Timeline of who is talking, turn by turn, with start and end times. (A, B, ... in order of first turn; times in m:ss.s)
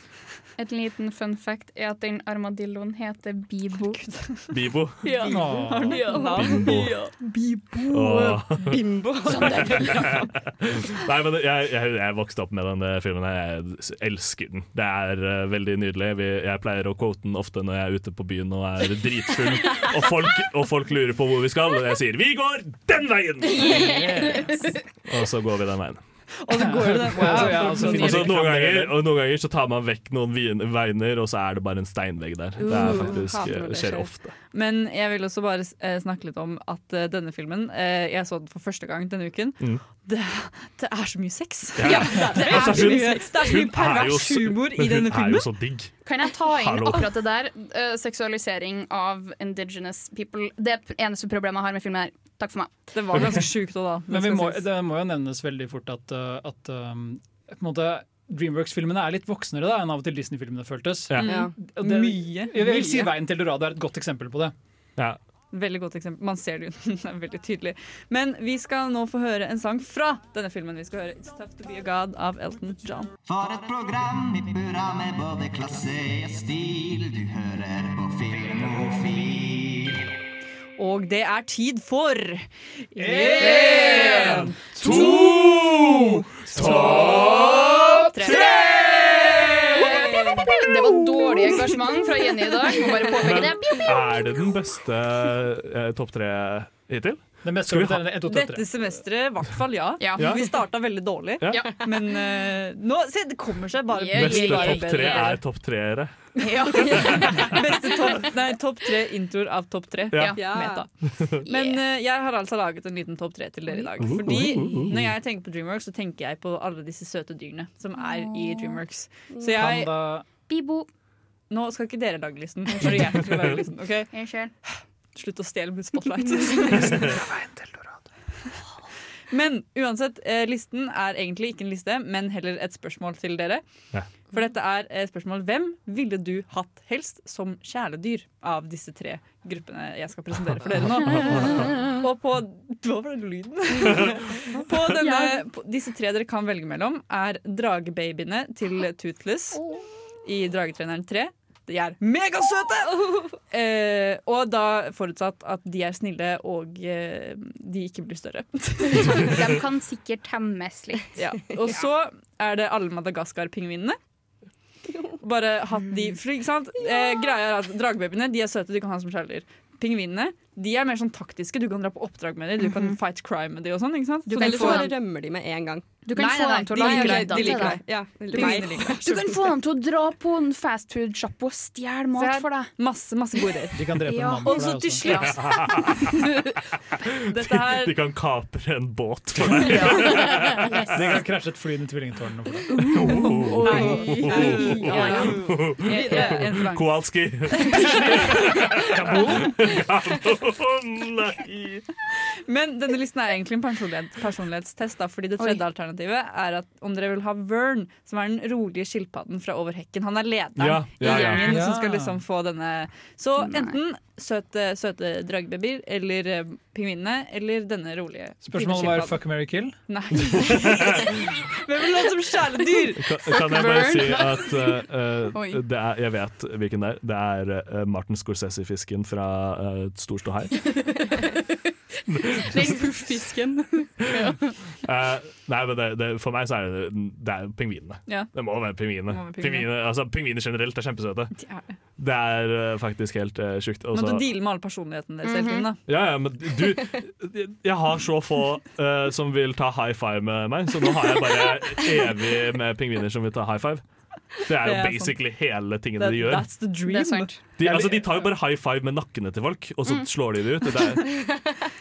0:00.6-0:04.0 A
0:03.9-0:04.5 B
0:04.5-0:05.3 C
0:05.0-0:05.3 A
0:05.0-0:07.1 D
0:05.1-0:06.6 B
0:05.3-0:06.1 E
0:06.0-0:06.3 A
0:06.3-0:07.0 C
0:07.9-0:24.2 C
0:08.6-0:10.1 D
0:09.3-0:10.1 A
0:23.5-0:24.7 A
0:23.6-0:24.4 E
0:25.1-0:26.0 C
0:26.4-0:28.4 B
0:26.5-0:29.0 E
0:27.3-0:34.3 C
0:32.6-0:34.1 D
0:34.5-0:45.5 B
0:41.8-0:47.2 C
0:41.9-0:42.7 A
0:41.9-0:43.3 D
0:46.0-0:53.3 A
0:52.9-0:54.7 B
0:54.1-1:04.5 E
1:01.1-1:03.1 B
1:01.2-1:01.5 D
1:05.5-1:13.1 B
1:13.2-1:20.1 F
1:20.8-1:24.5 B
1:23.0-1:28.1 E
1:23.6-1:24.1 A
1:23.9-1:28.7 C
1:28.1-1:30.4 B
1:29.7-1:34.5 A
1:33.1-1:38.1 C
1:37.4-1:38.7 E
1:38.3-1:45.4 B
1:40.0-1:40.5 A
1:40.2-1:40.4 C
1:41.5-1:41.8 A
1:43.9-1:45.4 A
1:44.1-1:47.5 C
1:46.4-1:48.3 A
1:46.7-1:50.9 B
1:50.1-1:50.4 C
1:50.1-1:50.4 A
1:50.3-1:50.8 D
1:51.1-1:51.4 C
1:51.4-1:59.9 B
1:51.5-1:51.8 A
1:54.0-1:55.1 C
1:58.0-1:58.8 A
1:59.3-1:59.6 D
1:59.6-2:00.3 E
2:00.5-2:00.9 A
2:01.5-2:07.1 B
2:02.7-2:03.5 A
2:02.9-2:03.4 C
2:04.1-2:04.5 A
2:06.2-2:06.9 A
2:06.8-2:08.0 E
2:09.3-2:13.6 B
2:14.3-2:29.6 B
2:21.1-2:21.6 C
2:24.9-2:25.4 A
2:30.2-2:39.4 B
2:38.9-2:41.5 A
2:41.2-2:44.0 B
2:44.9-2:45.1 D
2:45.2-2:54.9 B
2:52.6-2:53.0 A
2:54.3-2:56.0 D
2:54.3-2:54.9 A
2:56.1-3:02.7 A
2:56.2-2:59.0 B
2:56.7-2:59.4 D
3:02.2-3:05.5 B
3:03.7-3:05.2 E
3:04.0-3:06.5 A
3:05.1-3:06.1 C
3:07.3-3:07.9 B
3:07.4-3:11.0 C
3:09.5-3:10.3 E
3:09.7-3:10.9 A
3:10.9-3:13.2 E
3:12.9-3:21.8 C
3:13.0-3:15.3 A
3:13.6-3:17.0 B
3:13.6-3:16.4 D
3:17.6-3:18.5 B
3:19.2-3:19.4 E
3:22.4-3:39.2 B
3:30.6-3:31.7 C
3:31.3-3:32.2 E
3:33.4-3:33.8 A
3:38.4-3:39.8 E
3:39.9-3:43.0 B
3:40.2-3:41.2 C
3:43.0-3:50.8 C
3:43.3-3:45.6 A
3:50.7-3:51.4 A
3:52.1-3:52.9 C
3:52.3-3:54.6 A
3:54.1-4:01.3 C
3:59.1-3:59.7 B
4:01.4-4:01.7 B
4:02.0-4:04.2 C
4:03.9-4:05.8 B
4:05.2-4:05.7 A
4:05.9-4:13.8 C
4:14.4-4:16.5 C
4:14.6-4:15.2 B
4:16.0-4:17.3 B
4:16.9-4:17.4 A
4:17.6-4:21.3 C
4:17.6-4:18.3 E